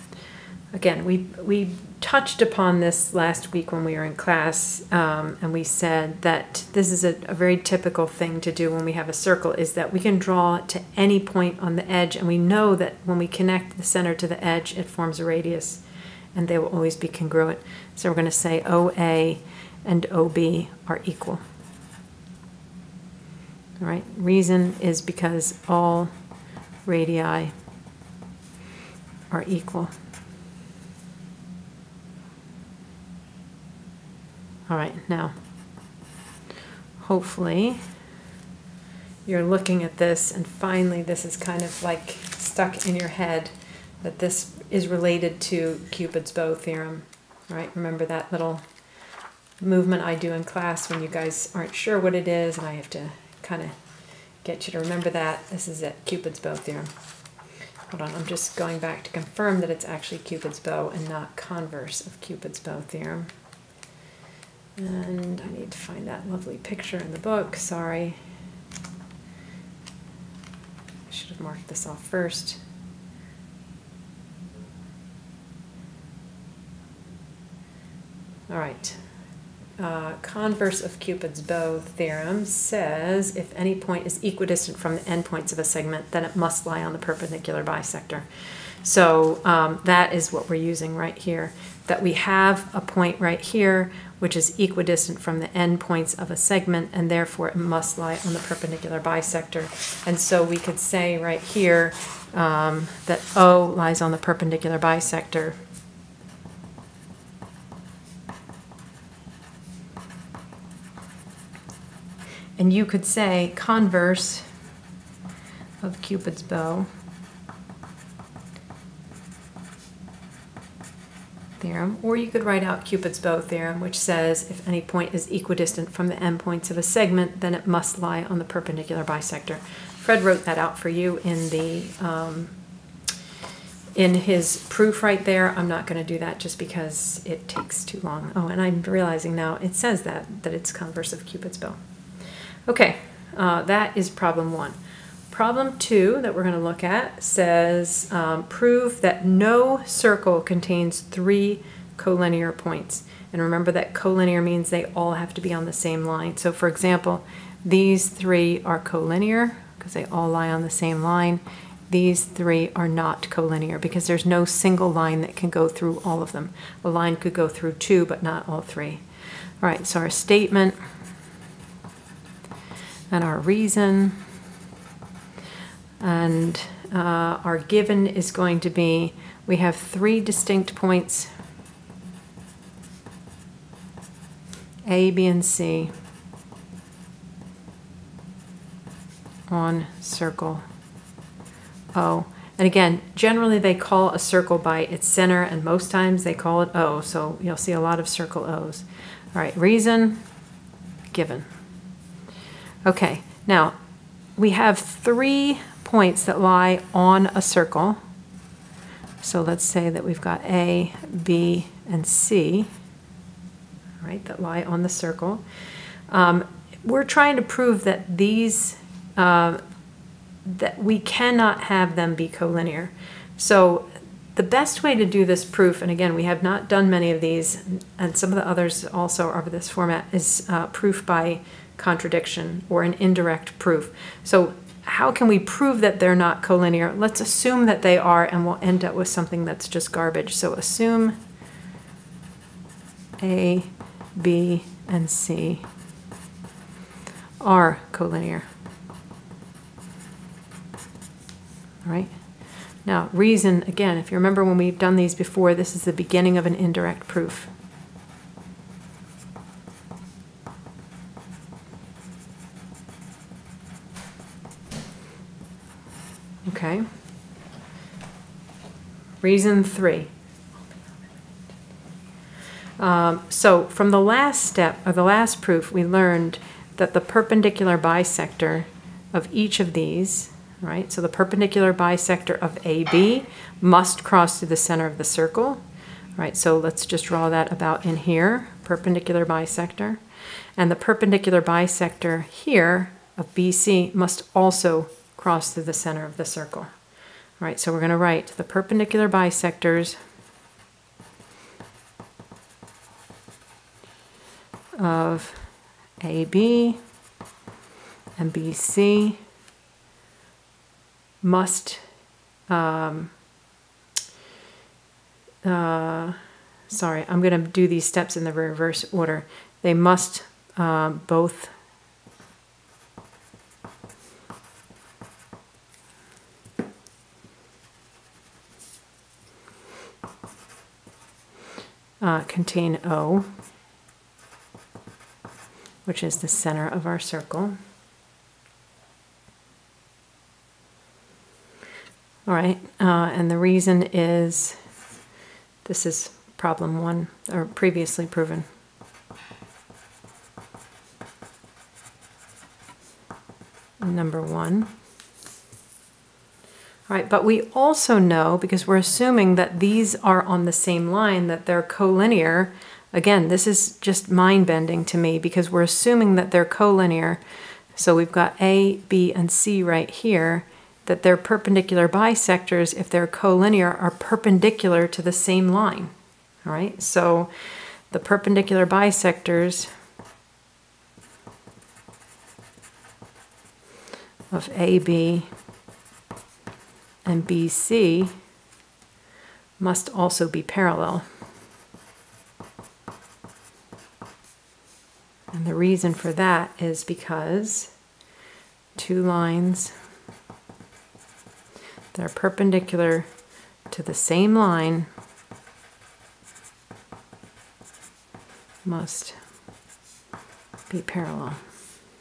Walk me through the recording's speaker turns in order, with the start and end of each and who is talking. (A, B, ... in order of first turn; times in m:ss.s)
0:00.7-0:15.8 A
0:16.3-0:21.4 A
0:23.8-0:26.1 A
0:26.8-0:27.5 A
0:29.3-0:29.9 A
0:34.7-0:35.4 A
0:37.0-0:37.8 A
0:39.2-0:48.6 A
0:49.6-0:53.8 A
0:54.4-0:56.9 A
0:57.9-1:03.3 A
1:04.8-1:08.2 A
1:11.1-1:12.6 A
1:18.5-1:19.0 A
1:19.8-1:45.6 A
1:52.6-1:54.4 A
1:55.8-1:56.9 A
2:01.6-2:12.5 A
2:13.9-2:21.8 A
2:22.7-2:24.8 A
2:25.3-2:49.0 A
2:49.6-2:50.8 A
2:53.1-2:54.2 A
2:56.0-3:01.3 A
3:04.8-3:05.9 A
3:09.5-3:10.6 A
3:11.9-3:20.2 A
3:21.1-3:21.5 A
3:22.8-3:23.8 A
3:24.4-3:28.0 A
3:29.2-3:32.7 A
3:34.0-3:35.4 A
3:36.1-3:39.6 A
3:40.4-4:01.2 A
4:03.2-4:05.7 A
4:07.4-4:08.5 A
4:11.8-4:12.3 A
4:12.8-4:17.5 A
4:26.4-4:26.9 A
4:29.2-4:30.1 A
4:32.8-4:45.6 A
4:46.2-4:50.0 A
4:50.6-4:56.7 A
4:57.4-5:00.0 A
5:04.7-5:06.8 A
5:08.2-5:09.2 A
5:11.2-5:11.8 A
5:12.5-5:13.1 A
5:15.4-5:16.2 A
5:16.7-5:21.6 A
5:32.0-5:33.3 A
5:35.8-5:37.6 A
5:42.2-5:44.6 A
5:45.6-5:48.4 A
5:53.8-5:54.7 A
5:56.9-6:07.2 A
6:07.7-6:15.9 A
6:16.4-6:19.7 A
6:24.3-6:25.3 A
6:27.0-6:28.2 A
6:29.6-6:31.1 A
6:35.3-6:37.7 A
6:38.7-6:39.7 A
6:41.9-6:43.1 A
6:43.7-6:44.9 A
6:48.6-6:49.2 A
6:50.7-6:51.4 A